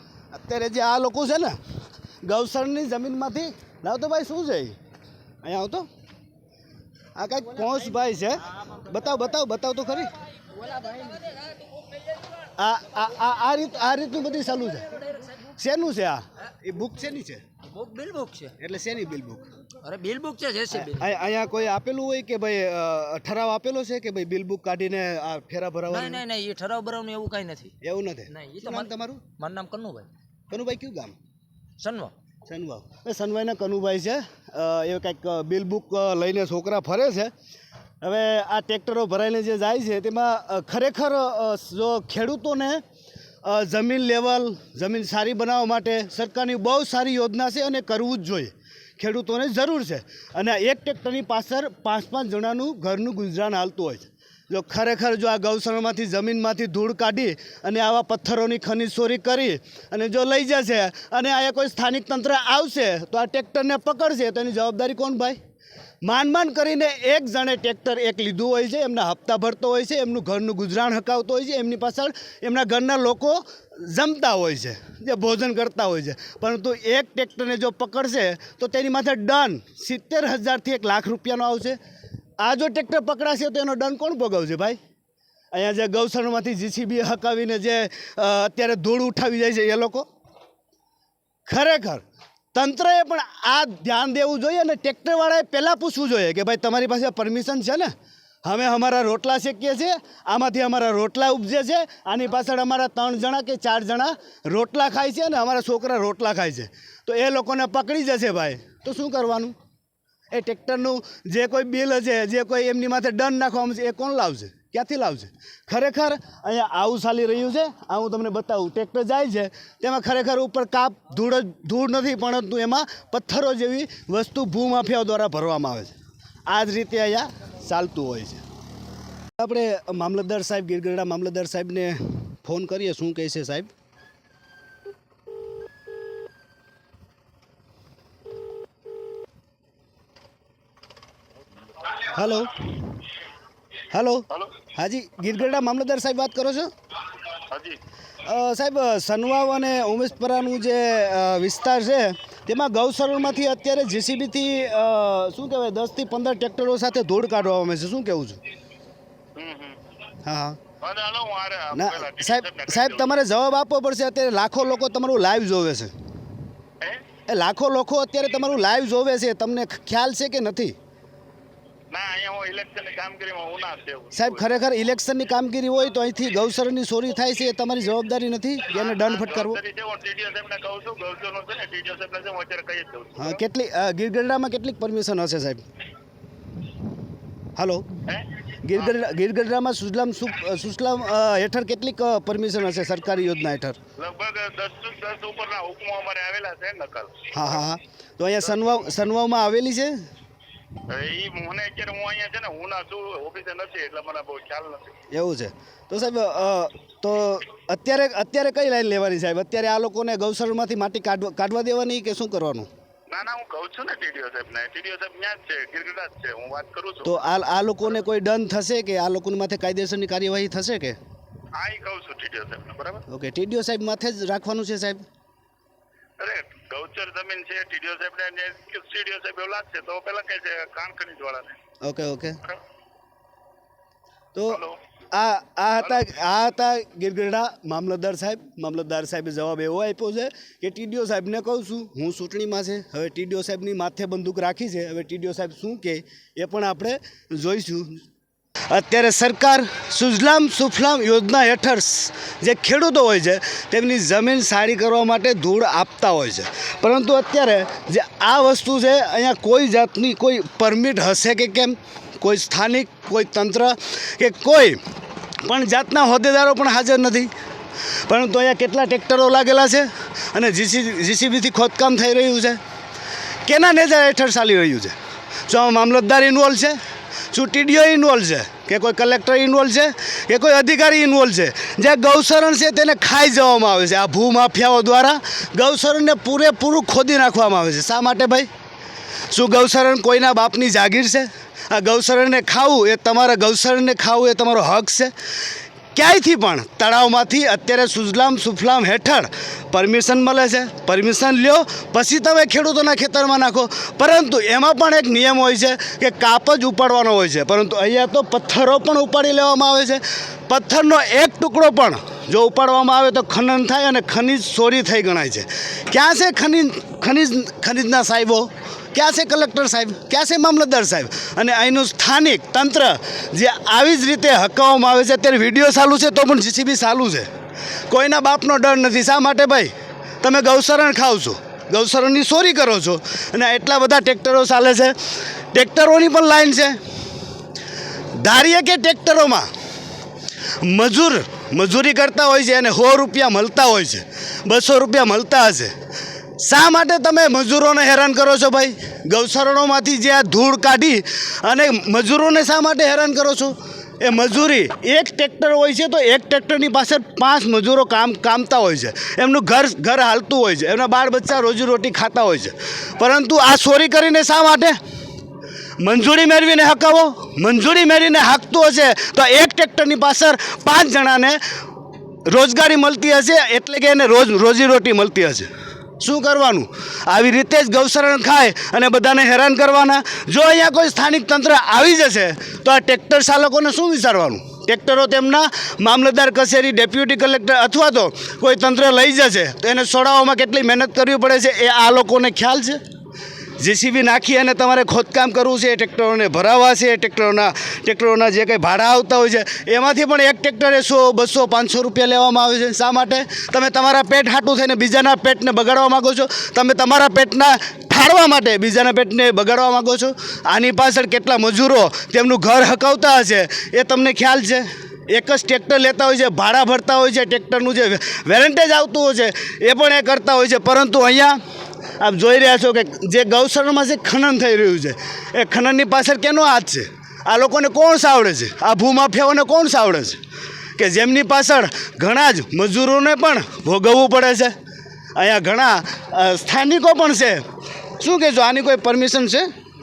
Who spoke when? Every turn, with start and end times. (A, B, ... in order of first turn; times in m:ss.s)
0:00.3-0:01.6 A
0:02.2-0:04.8 A
0:05.4-0:05.9 A
0:07.2-0:10.1 A
0:10.7-0:11.3 B
0:12.6-0:14.9 A
0:15.6-0:17.4 A
0:17.7-0:18.5 B
0:18.6-0:19.4 A
0:19.8-0:21.0 B
0:20.7-0:26.2 A
0:25.9-0:27.7 B
0:27.8-0:29.2 A
0:28.3-0:30.1 B
0:30.5-0:31.1 A
0:31.8-0:32.1 B
0:32.5-0:37.3 A
0:38.0-0:42.8 A
0:43.4-1:05.4 A
1:06.0-1:21.8 A
1:22.4-1:24.8 A
1:25.5-1:30.0 A
1:31.5-1:32.0 A
1:32.5-1:37.9 A
1:38.4-1:49.5 A
1:50.3-2:05.9 A
2:06.5-2:08.4 A
2:09.4-2:13.7 A
2:22.1-2:22.6 A
2:23.9-2:26.7 A
2:27.5-2:27.8 C
2:28.2-2:38.4 A
2:39.4-2:39.8 C
2:40.2-2:40.6 A
2:40.8-2:43.2 C
2:41.7-2:45.9 A
2:47.3-2:50.7 A
2:51.9-2:54.5 C
2:54.1-2:59.6 A
2:58.7-3:03.4 C
3:03.2-3:05.6 A
3:07.6-3:07.9 A
3:08.1-3:09.1 C
3:08.6-3:13.8 A
3:14.0-3:17.6 C
3:17.3-3:20.0 A
3:18.4-3:18.9 C
3:20.9-3:24.9 C
3:25.1-3:32.7 A
3:33.1-3:37.3 C
3:37.0-3:41.0 A
3:41.5-3:43.0 C
3:43.1-3:45.0 A
3:46.2-3:51.5 C
3:51.8-3:52.4 A
3:54.3-4:08.0 A
3:54.5-3:54.7 C
4:08.7-4:24.8 A
4:25.4-4:27.3 A
4:28.1-4:32.6 A
4:33.4-4:34.9 A
4:35.5-4:36.8 A
4:37.3-4:48.5 A
4:49.3-4:55.1 A
4:55.9-5:27.3 A
5:27.9-5:35.0 A
5:35.5-5:36.8 A
5:38.2-5:39.5 A
5:40.6-5:45.7 A
5:46.4-6:04.8 A
6:05.8-6:11.4 A
6:12.3-6:15.5 A
6:16.0-6:32.8 A
6:33.6-7:01.4 A
7:02.0-7:10.2 A
7:10.8-7:14.5 A
7:15.2-7:17.4 A
7:18.0-7:19.5 A